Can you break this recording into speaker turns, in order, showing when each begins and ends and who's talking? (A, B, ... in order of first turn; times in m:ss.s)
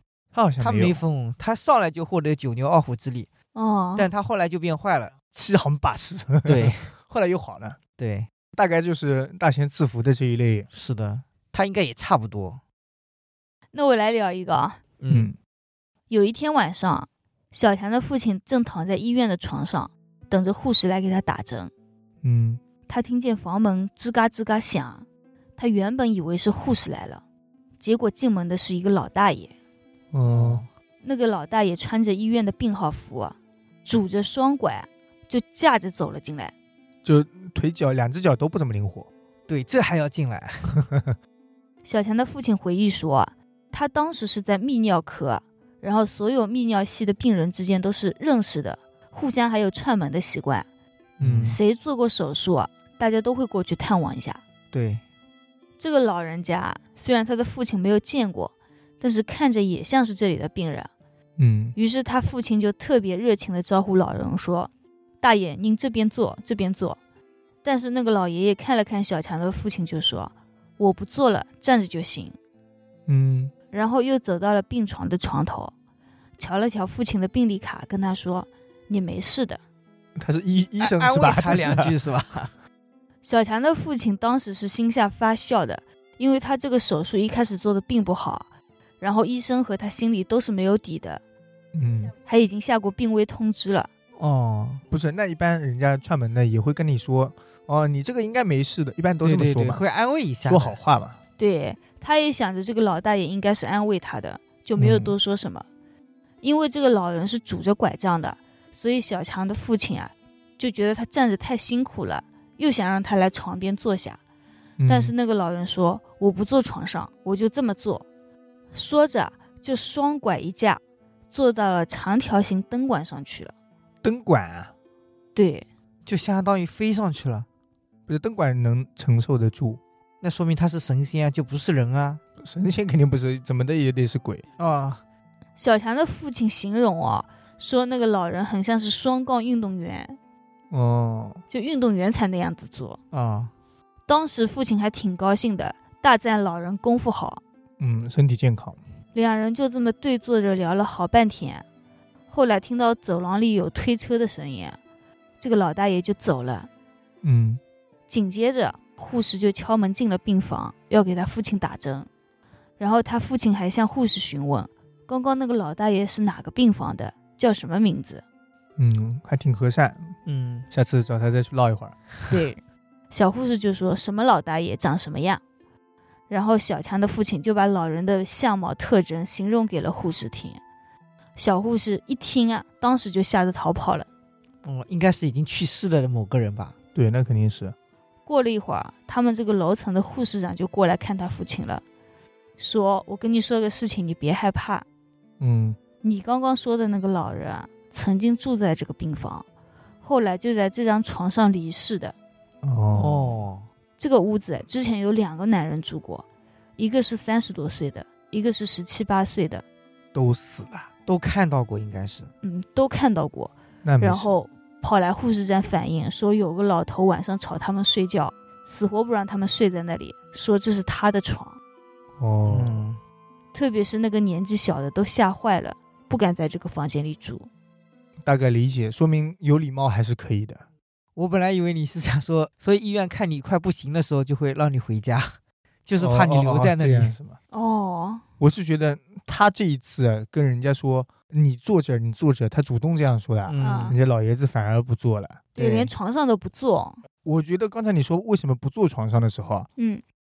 0:00.3-0:01.0 A
0:00.6-0:03.3 B
0:03.5-0:04.1 C
0:04.0-0:05.1 B
0:05.3-0:07.8 A
0:06.5-0:06.9 B
0:08.0-0:08.3 B
0:08.5-0:10.7 A
0:10.7-0:12.6 B
0:13.7-0:14.8 C
0:15.0-0:15.3 B
0:15.1-0:15.4 A
0:16.1-0:21.7 C
0:22.2-0:22.6 A
0:22.9-0:25.0 C
0:25.6-0:27.2 C
0:27.8-0:29.5 C
0:30.1-0:30.6 A
0:30.3-0:30.7 B
0:31.0-0:36.5 C
0:37.0-0:39.1 A
0:39.5-0:40.7 B
0:40.7-0:41.2 A
0:41.8-0:50.7 C
0:51.2-0:51.6 A
0:51.2-0:51.6 B
0:51.4-0:54.4 C
0:54.7-0:55.0 B
0:55.8-1:00.9 C
1:01.4-1:01.8 A
1:01.8-1:07.0 C
1:07.6-1:12.4 C
1:13.1-1:13.5 A
1:13.7-1:15.7 C
1:16.4-1:19.6 C
1:20.2-1:21.9 A
1:20.8-1:22.5 B
1:23.2-1:28.5 C
1:29.0-1:31.2 C
1:31.7-1:32.1 A
1:32.2-1:33.9 C
1:34.2-1:34.8 B
1:34.9-1:39.8 A
1:39.2-1:40.8 B
1:40.5-1:41.2 A
1:41.4-1:45.7 C
1:44.8-1:45.2 A
1:46.4-1:54.2 C
1:54.8-1:55.1 A
1:54.9-1:58.0 C
1:58.7-2:03.5 C
2:04.0-2:04.7 A
2:05.4-2:05.7 C
2:06.1-2:07.5 B
2:08.1-2:09.8 A
2:10.2-2:12.2 B
2:12.4-2:14.5 A
2:14.6-2:15.0 B
2:15.6-2:20.2 C
2:20.7-2:21.4 A
2:21.5-2:23.0 C
2:23.1-2:23.5 B
2:24.1-2:27.4 C
2:27.8-2:28.8 A
2:29.1-2:31.6 C
2:32.3-2:34.8 C
2:35.4-2:36.7 C
2:37.2-2:37.6 A
2:38.1-2:42.1 C
2:42.8-2:48.2 C
2:48.8-2:50.2 A
2:50.2-2:50.7 B
2:50.7-2:52.0 A
2:52.3-2:52.6 C
2:53.1-2:55.4 C
2:56.3-3:00.6 C
3:01.4-3:04.1 C
3:04.6-3:06.8 B
3:07.0-3:07.8 A
3:08.3-3:11.8 C
3:12.6-3:14.8 C
3:15.4-3:15.8 A
3:16.0-3:19.4 C
3:20.0-3:22.2 C
3:22.6-3:23.4 A
3:22.9-3:23.7 B
3:24.0-3:26.2 C
3:26.8-3:29.6 C
3:30.1-3:30.9 A
3:31.1-3:32.3 B
3:32.4-3:41.6 C
3:33.8-3:34.3 A
3:42.2-3:42.8 A
3:42.5-3:43.0 B
3:43.5-3:47.5 C
3:48.2-3:50.6 A
3:51.2-3:57.2 B
3:56.0-3:57.4 A
3:57.5-3:58.2 C
3:58.4-4:05.4 A
4:03.5-4:04.0 B
4:03.6-4:04.0 C
4:05.6-4:07.0 C
4:05.6-4:05.9 B
4:07.2-4:09.7 A
4:09.8-4:10.0 C